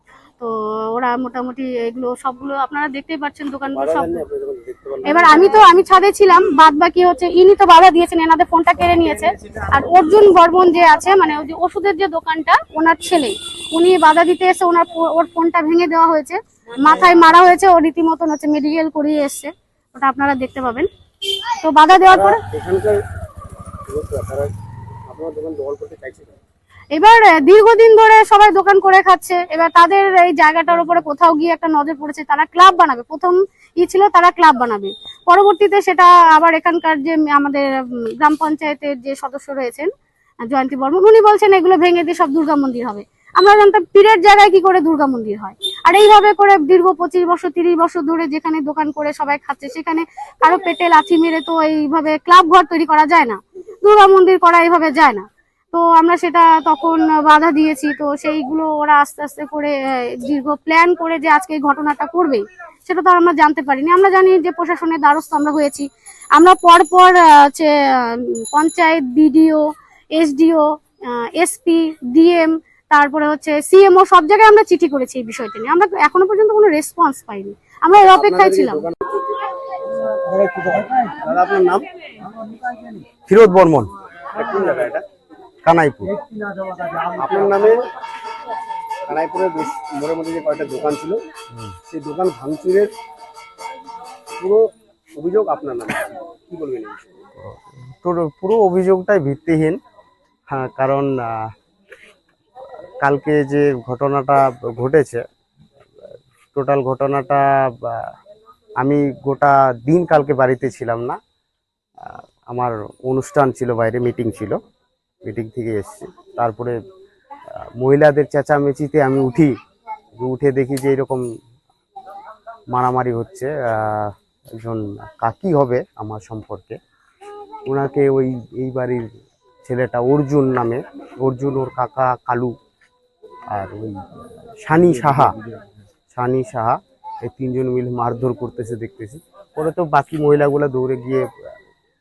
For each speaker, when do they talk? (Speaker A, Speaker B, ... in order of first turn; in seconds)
Speaker A: 0.4-4.2, 5.0-20.9, 21.6-22.4, 26.9-37.6, 38.2-39.9, 40.5-69.6, 70.2-78.8
Speaker B: 3.7-5.5, 22.1-23.0, 23.9-24.5, 25.1-26.4, 78.1-79.0, 80.5-81.8, 84.4-85.0, 87.2-87.8, 89.0-91.2, 91.9-92.9, 94.4-94.6, 95.1-97.2, 134.9-135.3
Speaker C: 83.3-83.9, 85.6-86.1, 97.4-99.8, 100.5-101.5, 103.0-105.2, 106.5-108.1, 108.8-111.2, 112.0-114.6, 115.2-116.8, 117.8-119.5, 120.2-121.2, 122.7-126.8, 127.7-129.1, 129.6-132.5, 133.5-134.1, 134.6-135.3, 136.1-141.3